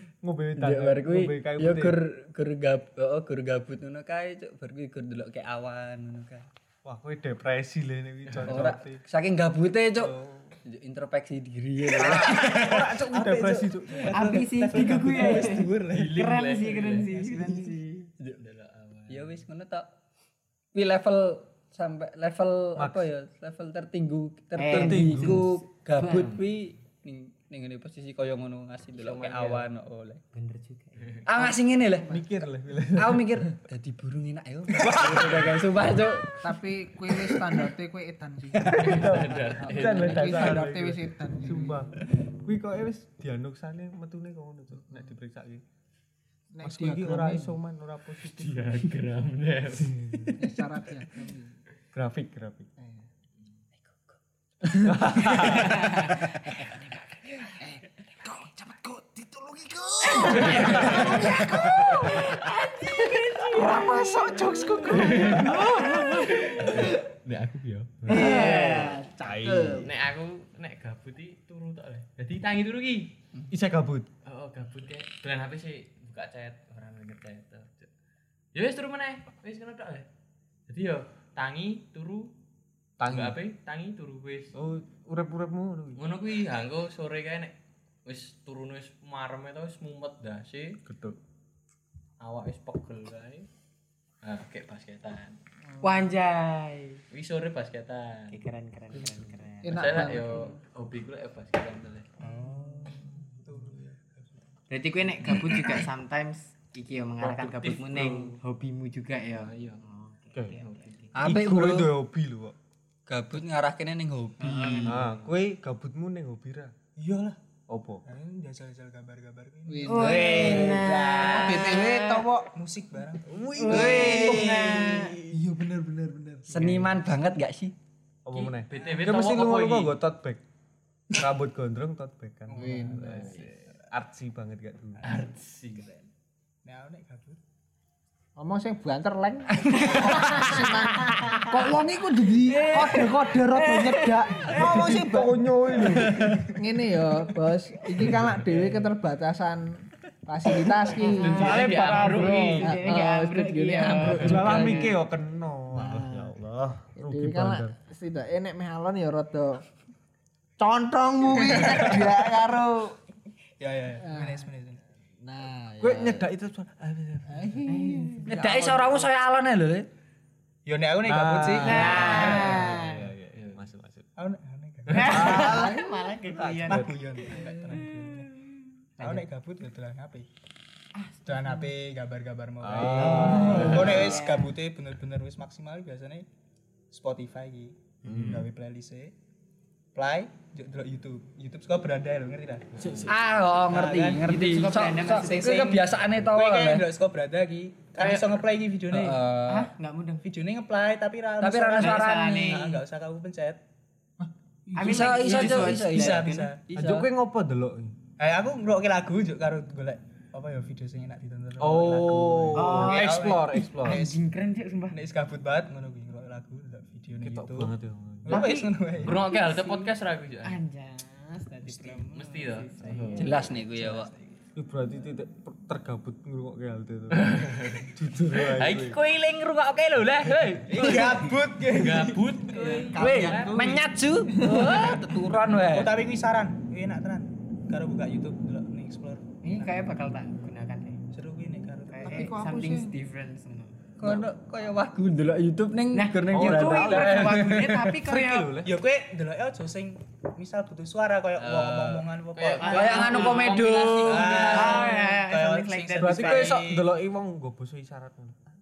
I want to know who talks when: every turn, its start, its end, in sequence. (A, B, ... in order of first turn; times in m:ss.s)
0:00.2-0:02.0 A
0:00.6-0:06.5 B
0:06.8-0:09.0 A
0:08.3-0:08.6 C
0:08.5-0:12.8 B
0:10.0-0:10.5 A
0:11.9-0:14.2 A
0:12.8-0:16.1 D
0:14.1-0:18.1 E
0:15.9-0:17.2 C
0:17.1-0:17.8 D
0:18.4-0:19.3 C
0:19.1-0:19.9 B
0:20.7-0:30.2 B
0:22.8-0:23.1 A
0:24.6-0:26.4 E
0:24.7-0:25.5 A
0:28.9-0:29.7 C
0:30.3-0:31.2 E
0:31.2-0:32.2 B
0:32.0-0:33.5 A
0:33.0-0:36.4 B
0:34.7-0:35.8 A
0:36.4-0:41.8 F
0:38.7-0:39.1 B
0:38.8-0:40.6 C
0:39.0-0:45.6 A
0:39.6-0:39.9 B
0:46.5-0:47.6 F
0:46.6-0:48.7 A
0:48.3-0:50.4 C
0:49.8-0:50.4 A
0:50.4-0:51.6 F
0:51.9-0:52.7 A
0:52.8-0:53.1 F
0:54.6-0:56.2 B
0:54.8-0:56.1 A
0:57.6-1:02.5 F
1:00.1-1:06.1 E
1:00.4-1:00.7 C
1:00.8-1:01.0 A
1:03.1-1:06.8 F
1:04.9-1:05.6 C
1:05.1-1:05.9 A
1:06.2-1:08.5 C
1:08.0-1:09.9 F
1:08.1-1:09.0 E
1:09.2-1:09.9 A
1:09.7-1:13.2 C
1:13.5-1:14.1 A
1:14.2-1:17.9 C
1:18.5-1:20.1 C
1:20.7-1:22.3 C
1:23.0-1:23.4 A
1:23.0-1:24.5 C
1:24.5-1:26.0 A
1:26.0-1:30.8 C
1:30.8-1:31.2 A
1:32.2-1:33.5 C
1:34.2-1:35.4 C
1:35.7-1:36.1 F
1:35.8-1:37.0 E
1:37.1-1:38.4 C
1:38.3-1:40.5 E
1:39.6-1:40.6 F
1:39.6-1:42.2 C
1:42.2-1:43.1 E
1:42.4-1:44.4 D
1:44.7-1:51.2 E
1:47.2-1:48.4 C
1:49.3-1:49.8 C
1:50.3-1:50.6 A
1:50.5-1:51.0 C
1:51.2-1:51.9 B
1:51.2-1:52.5 A
1:53.1-1:55.0 B
1:54.4-1:55.2 E
1:54.8-1:56.7 A
1:57.0-1:57.4 D
1:57.7-1:58.0 A
1:58.0-2:01.2 D
1:59.6-2:02.5 F
1:59.9-2:02.3 E
2:02.5-2:03.4 D
2:03.2-2:05.1 A
2:03.6-2:05.1 E
2:03.6-2:06.8 F
2:06.5-2:07.7 B
2:06.6-2:06.9 D
2:08.2-2:10.4 A
2:08.3-2:10.0 C
2:08.7-2:09.1 D
2:11.1-2:15.0 A
2:12.5-2:13.8 D
2:12.5-2:13.4 F
2:13.2-2:13.4 C
2:15.0-2:15.9 C
2:16.6-2:17.4 D
2:18.4-2:31.5 F
2:19.8-2:21.4 E
2:20.4-2:21.1 B
2:22.4-2:24.9 E
2:24.5-2:26.4 A
2:28.1-2:28.7 C
2:31.0-2:35.0 E
2:31.1-2:32.8 C
2:31.2-2:32.7 A
2:31.9-2:34.8 B
2:32.6-2:34.9 F
2:34.0-2:37.7 A
2:35.7-2:36.4 F
2:37.0-2:39.6 F
2:40.6-2:43.0 F
2:43.6-2:44.8 D
2:44.0-2:44.5 F
2:45.3-2:46.2 F
2:45.8-2:47.5 A
2:47.2-2:48.9 F
2:47.6-2:48.4 E
2:48.3-2:49.9 B
2:50.6-2:52.6 D
2:51.0-2:54.1 A
2:51.6-2:53.1 E
2:53.3-2:53.6 C
2:54.2-2:55.5 D
2:54.9-2:56.9 A
2:54.9-2:59.2 E
2:55.5-2:55.9 F
2:56.6-2:58.3 D
2:59.0-3:00.3 D
3:01.0-3:01.7 E
3:01.2-3:06.3 D
3:02.6-3:04.2 A
3:03.0-3:04.5 E
3:06.9-3:09.1 D
3:08.0-3:08.4 A
3:09.9-3:13.1 D
3:12.8-3:13.1 C
3:13.0-3:16.9 B
3:13.6-3:19.2 D
3:14.4-3:15.7 E
3:18.0-3:18.4 C
3:18.9-3:19.7 B
3:19.5-3:20.3 E
3:20.2-3:23.6 D
3:21.4-3:22.5 B
3:21.8-3:22.8 E
3:24.2-3:25.2 F
3:24.8-3:26.5 E
3:24.8-3:27.1 B
3:25.2-3:26.6 D
3:26.7-3:28.0 A
3:28.2-3:34.2 D
3:31.6-3:34.0 A
3:32.6-3:35.1 E
3:34.9-3:37.7 D
3:37.2-3:38.4 A
3:38.2-3:39.2 D
3:38.3-3:43.6 E
3:39.0-3:40.6 C
3:41.6-3:42.1 D
3:42.1-3:43.3 C
3:43.2-3:44.1 B
3:43.4-3:44.4 D
3:44.6-3:49.0 A
3:47.1-3:53.5 C
3:50.6-3:52.7 D
3:52.6-3:52.9 E
3:52.9-3:54.8 F
3:52.9-3:55.9 B
3:54.7-3:59.6 D
3:59.4-4:01.0 E
4:01.1-4:02.3 D
4:01.9-4:03.8 E
4:02.0-4:02.9 F
4:04.0-4:07.6 B
4:05.9-4:08.6 E
4:06.3-4:08.8 A
4:08.6-4:16.9 D
4:11.4-4:12.0 B
4:12.3-4:15.1 C
4:12.6-4:13.4 E
4:12.6-4:14.5 B
4:14.4-4:16.6 E
4:16.0-4:18.4 A